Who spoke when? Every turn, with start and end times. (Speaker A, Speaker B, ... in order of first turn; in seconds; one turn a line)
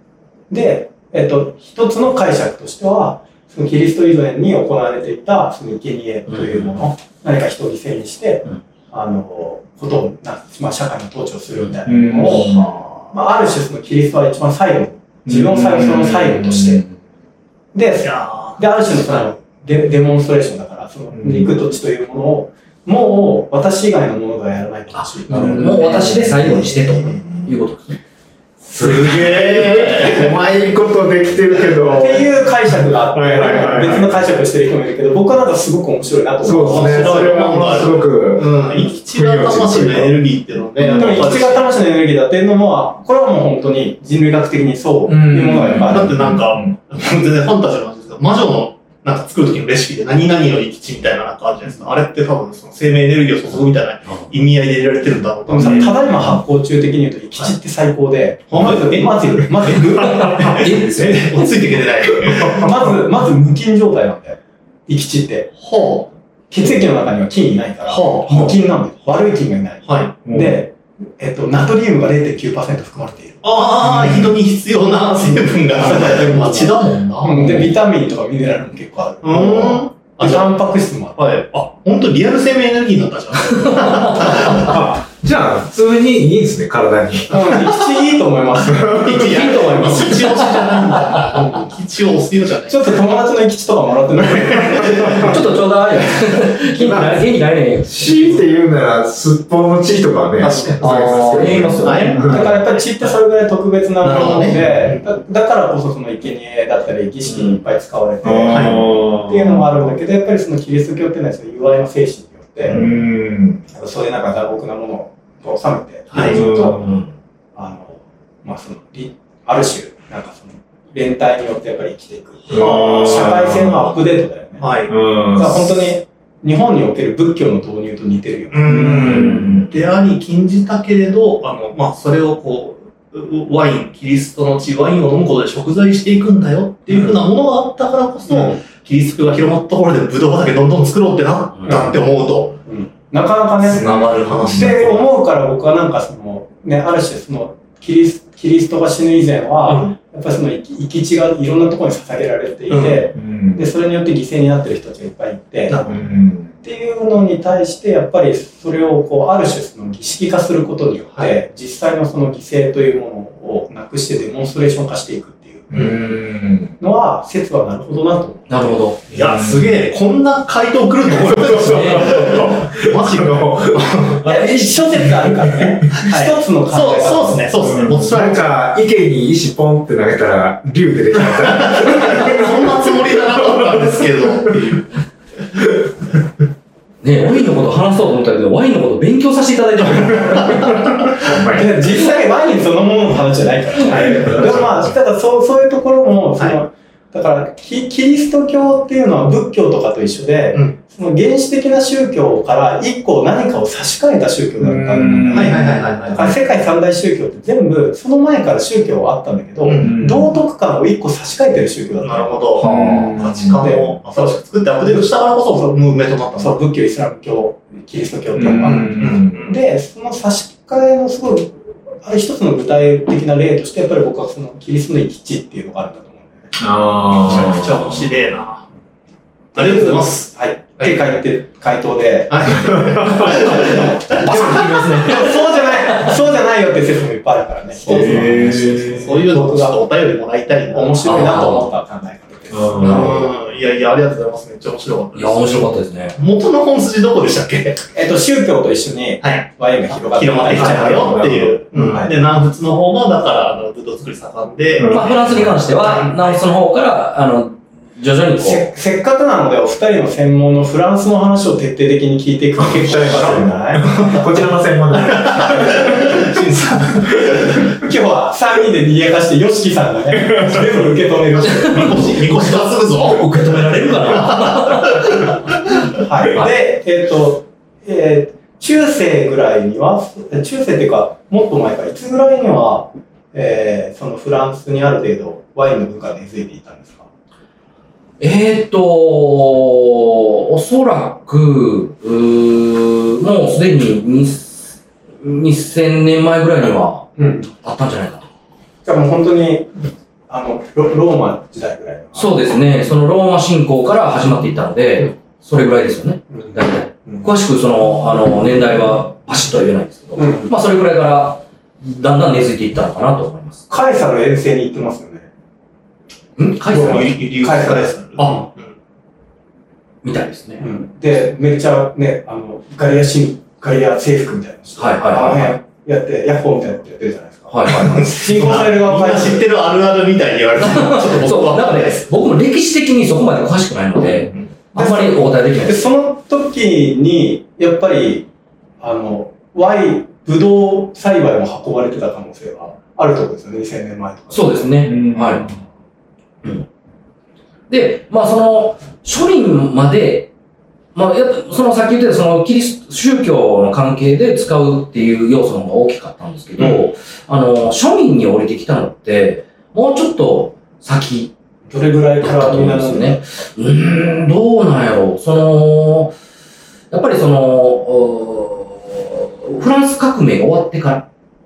Speaker A: 0.5-16.8
Speaker B: 6.3-6.8
Speaker C: 11.8-12.7
Speaker D: 12.2-13.1
Speaker C: 15.2-16.9
Speaker A: 17.7-27.1
Speaker D: 18.0-19.3
Speaker C: 21.1-21.6
Speaker B: 24.9-28.0
Speaker C: 25.3-26.6
Speaker D: 27.2-27.5
Speaker C: 28.6-34.1
Speaker D: 28.7-30.4
Speaker A: 31.8-37.9
Speaker C: 36.4-38.5
Speaker D: 36.6-41.7
Speaker C: 39.0-40.2
Speaker C: 40.8-41.4
Speaker A: 40.8-46.2
Speaker C: 45.1-46.8
Speaker D: 45.8-56.0
Speaker A: 55.5-60.7
Speaker D: 58.5-62.6
Speaker C: 60.0-60.5
Speaker B: 60.3-61.4
Speaker A: 62.5-65.5
Speaker D: 65.6-66.1
Speaker A: 66.5-73.4
Speaker D: 67.8-68.6
Speaker D: 69.8-70.2
Speaker C: 70.2-70.6
Speaker D: 73.4-77.6
Speaker A: 74.1-74.3
Speaker A: 75.6-81.2
Speaker D: 79.2-80.5
Speaker D: 81.2-84.7
Speaker C: 84.4-87.6
Speaker A: 87.3-91.7
Speaker C: 88.6-89.3
Speaker D: 88.9-93.0
Speaker B: 89.3-90.4
Speaker A: 92.7-95.5
Speaker B: 95.2-98.4
Speaker C: 96.8-97.3
Speaker C: 97.8-102.5
Speaker D: 100.4-103.2
Speaker B: 101.0-102.2
Speaker A: 102.2-112.8
Speaker D: 104.0-105.0
Speaker C: 104.5-104.9
Speaker B: 107.3-107.6
Speaker C: 108.2-109.8
Speaker D: 108.5-108.8
Speaker C: 112.7-113.6
Speaker A: 113.7-116.8
Speaker D: 116.1-116.4
Speaker C: 116.1-117.0
Speaker B: 116.8-117.1
Speaker A: 117.5-124.8
Speaker C: 122.5-123.9
Speaker D: 122.5-123.3
Speaker D: 124.6-124.9
Speaker C: 124.9-125.9
Speaker A: 125.3-129.2
Speaker D: 128.5-142.6
Speaker C: 128.6-129.8
Speaker B: 129.0-129.7
Speaker A: 138.3-138.6
Speaker A: 141.6-156.0
Speaker D: 143.6-145.1
Speaker C: 143.7-144.7
Speaker D: 149.7-149.9
Speaker D: 152.7-153.0
Speaker C: 153.1-153.7
Speaker D: 155.7-156.0
Speaker C: 155.8-156.6
Speaker A: 156.6-166.0
Speaker D: 165.7-166.0
Speaker C: 165.7-166.8
Speaker A: 166.8-168.7
Speaker B: 168.5-169.0
Speaker D: 169.1-174.2
Speaker C: 169.1-169.8
Speaker C: 171.1-175.6
Speaker B: 171.6-172.3
Speaker A: 174.2-177.7
Speaker D: 175.9-178.5
Speaker C: 177.6-182.9
Speaker D: 181.2-184.9
Speaker B: 187.0-190.9
Speaker C: 191.2-191.8
Speaker A: 191.3-226.6
Speaker D: 193.8-194.7
Speaker C: 204.6-205.9
Speaker D: 205.3-206.4
Speaker D: 209.6-209.9
Speaker C: 209.8-210.3
Speaker D: 212.0-216.6
Speaker C: 212.6-213.6
Speaker B: 212.6-213.2
Speaker C: 218.3-219.4
Speaker D: 218.6-219.6
Speaker C: 226.6-228.0
Speaker D: 227.2-228.6
Speaker D: 229.5-231.2
Speaker A: 229.5-239.9
Speaker D: 232.3-234.9
Speaker B: 234.3-235.4
Speaker C: 234.3-235.2
Speaker D: 237.8-241.7
Speaker C: 237.8-239.0
Speaker A: 240.7-243.3
Speaker B: 241.0-241.7
Speaker C: 242.5-243.3
Speaker D: 242.8-247.9
Speaker B: 245.1-246.2
Speaker A: 247.9-252.2
Speaker D: 249.2-256.4
Speaker C: 250.5-251.6
Speaker C: 254.8-255.6
Speaker B: 254.9-258.7
Speaker A: 258.4-264.6
Speaker C: 262.6-265.8
Speaker D: 263.8-264.2
Speaker D: 264.9-267.5
Speaker A: 265.2-266.0
Speaker A: 267.6-272.2
Speaker D: 271.3-275.2
Speaker B: 273.0-275.0
Speaker A: 276.0-287.1
Speaker B: 288.2-298.3
Speaker A: 297.2-297.5
Speaker A: 298.8-302.5
Speaker B: 302.1-313.7
Speaker A: 310.1-310.5
Speaker A: 313.7-315.3
Speaker B: 316.4-317.1
Speaker A: 316.7-318.5
Speaker D: 316.7-318.7
Speaker B: 320.0-320.6
Speaker A: 320.6-329.5
Speaker B: 324.8-325.5
Speaker B: 327.5-328.1
Speaker D: 327.7-332.2
Speaker B: 330.6-335.9
Speaker A: 334.7-338.3
Speaker A: 338.8-344.8
Speaker B: 344.3-345.4
Speaker C: 344.8-345.6
Speaker B: 347.7-350.3
Speaker B: 350.9-361.3
Speaker D: 356.6-356.9
Speaker A: 361.7-363.5
Speaker B: 362.2-366.1
Speaker B: 366.9-371.0